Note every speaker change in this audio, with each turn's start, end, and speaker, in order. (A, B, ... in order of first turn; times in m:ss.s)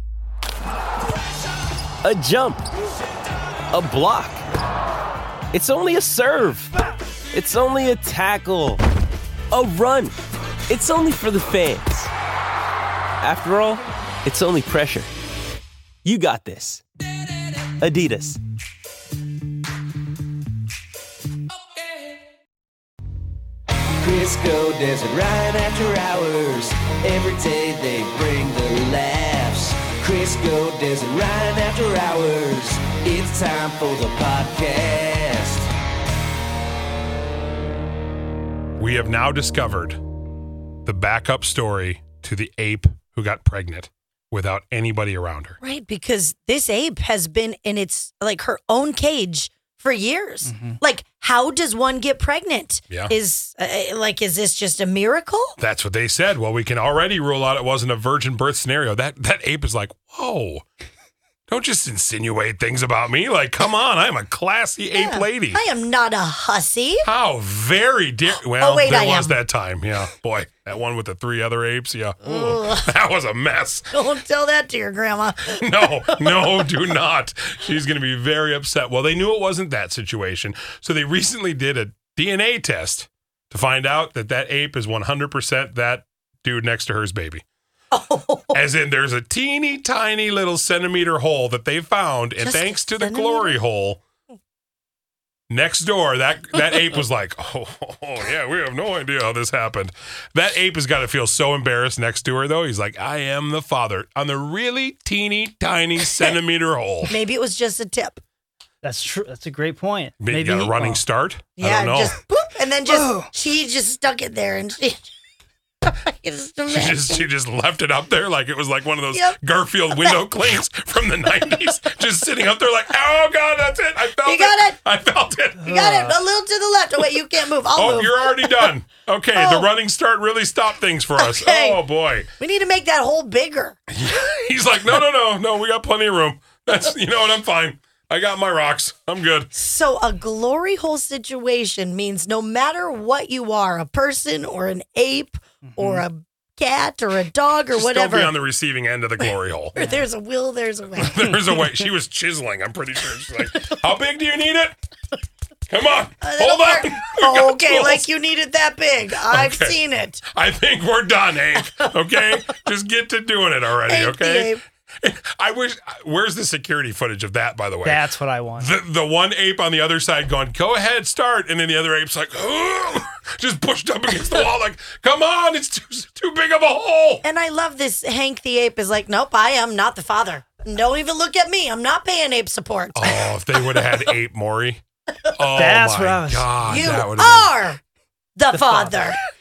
0:02.1-0:02.6 A
0:03.8-0:04.4 A
0:05.6-0:06.6 A
0:07.4-0:08.8 A
0:09.6-0:10.1 A
0:10.7-0:12.1 A
0:10.8-0:11.7 B
0:13.3-0:15.1 A
0:16.0-0:16.8 A
0:17.8-0:18.4 A
0:24.0-0:35.7 B
0:38.8-0:40.0 C
0:40.8-0:45.6 C
0:45.6-0:55.6 D
0:50.4-0:50.8 E
0:52.9-0:53.2 C
0:55.6-1:00.6 C
1:01.5-1:05.6 C
1:04.9-1:07.1 D
1:07.0-1:14.0 C
1:08.6-1:09.4 D
1:12.2-1:12.9 D
1:13.9-1:16.6 D
1:15.6-1:27.4 C
1:27.9-1:28.6 D
1:28.5-1:34.0 C
1:32.4-1:33.6 D
1:35.5-1:47.2 C
1:47.1-1:48.2 D
1:48.8-1:51.0 E
1:50.2-1:52.2 C
1:51.6-1:55.1 D
1:52.9-1:53.3 E
1:55.8-1:57.3 D
1:56.7-2:05.7 C
1:59.1-1:59.4 D
1:59.9-2:00.2 D
2:04.2-2:04.8 D
2:05.6-2:06.2 E
2:05.6-2:08.7 D
2:07.7-2:12.3 C
2:09.4-2:09.7 D
2:11.2-2:11.8 D
2:12.4-2:13.8 D
2:13.9-2:19.5 C
2:19.5-2:28.3 D
2:25.6-2:26.0 E
2:27.7-2:29.8 C
2:29.8-2:31.3 D
2:31.0-2:34.8 C
2:35.7-2:38.1 C
2:36.2-2:40.2 D
2:39.2-2:39.8 C
2:40.3-2:48.0 C
2:41.6-2:42.2 D
2:43.9-2:44.6 D
2:47.8-2:48.7 E
2:48.6-2:57.2 C
2:57.2-3:03.8 D
3:03.0-3:04.8 C
3:05.4-3:07.6 C
3:05.6-3:07.0 E
3:06.7-3:07.8 D
3:08.4-3:09.2 D
3:08.5-3:09.1 E